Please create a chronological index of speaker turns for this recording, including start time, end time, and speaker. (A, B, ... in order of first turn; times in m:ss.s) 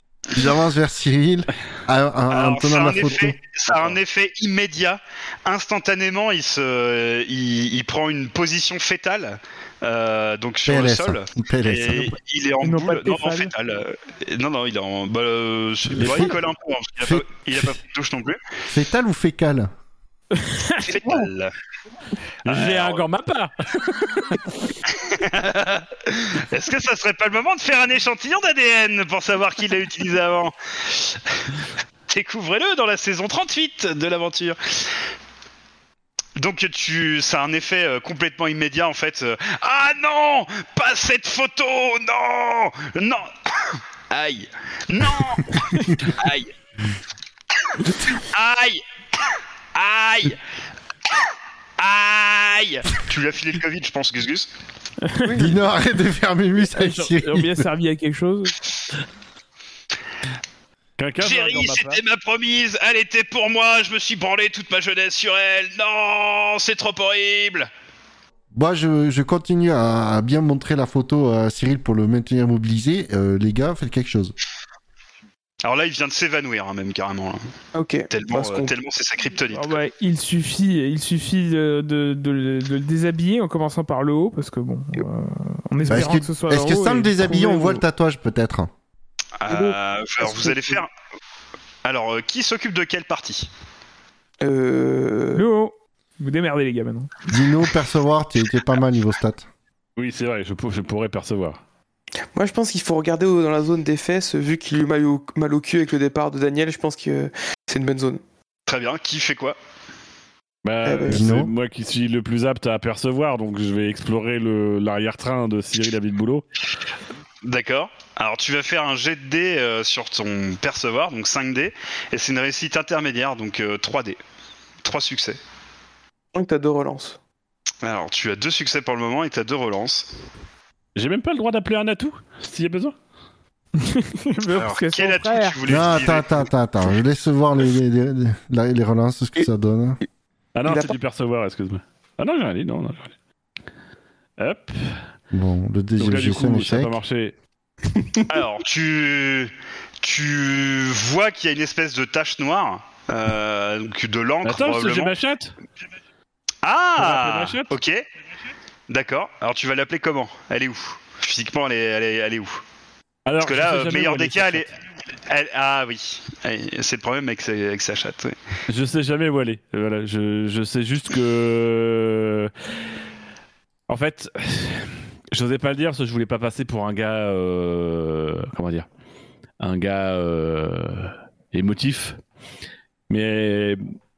0:00.3-0:03.4 A
0:02.3-0:18.4 B
0:10.7-0:12.2 A
0:12.6-0:13.5 C
0:16.0-0:16.3 A
0:16.0-0:16.3 D
0:17.0-0:17.6 A
0:18.7-0:19.7 A
0:20.4-0:21.2 C
0:20.8-0:21.5 B
0:22.4-0:23.0 B
0:22.5-0:24.5 D
0:24.9-0:31.5 B
0:32.1-0:34.8 B
0:36.4-0:46.5 B
0:48.2-0:50.4 B
0:51.8-0:54.5 B
0:55.0-0:55.4 C
0:55.2-0:55.6 E
0:55.4-0:57.7 A
0:56.7-0:58.6 C
1:01.0-1:02.0 D
1:01.2-1:07.7 B
1:08.5-1:14.3 A
1:15.6-1:17.4 B
1:17.8-1:18.7 E
1:18.1-1:19.7 B
1:19.5-1:27.8 C
1:25.9-1:28.7 A
1:29.4-1:30.9 B
1:29.5-1:30.8 E
1:31.8-1:33.5 B
1:34.4-1:35.4 E
1:35.4-1:37.3 C
1:37.3-1:39.5 A
1:40.0-1:41.6 D
1:42.3-1:48.2 E
1:48.7-1:49.6 B
1:50.6-1:56.4 D
1:50.8-1:51.3 E
1:51.1-1:51.5 A
1:57.4-2:04.2 B
2:04.8-2:05.4 B
2:06.3-2:07.2 E
2:07.8-2:10.1 B
2:11.0-2:13.0 D
2:13.8-2:15.6 C
2:14.5-2:16.5 B
2:15.7-2:20.0 A
2:20.6-2:23.1 D
2:20.7-2:21.0 E
2:24.4-2:25.0 D
2:25.3-2:27.0 A
2:26.0-2:27.4 D
2:27.9-2:28.3 E
2:28.3-2:35.1 B
2:34.4-2:35.6 D
2:36.6-2:38.0 B
2:37.0-2:37.7 D
2:38.9-2:42.6 B
2:43.3-2:44.7 D
2:43.4-2:44.7 B
2:45.3-2:48.4 B
2:48.7-2:52.5 D
2:53.9-2:58.9 D
2:59.6-3:02.2 D
3:03.1-3:03.8 D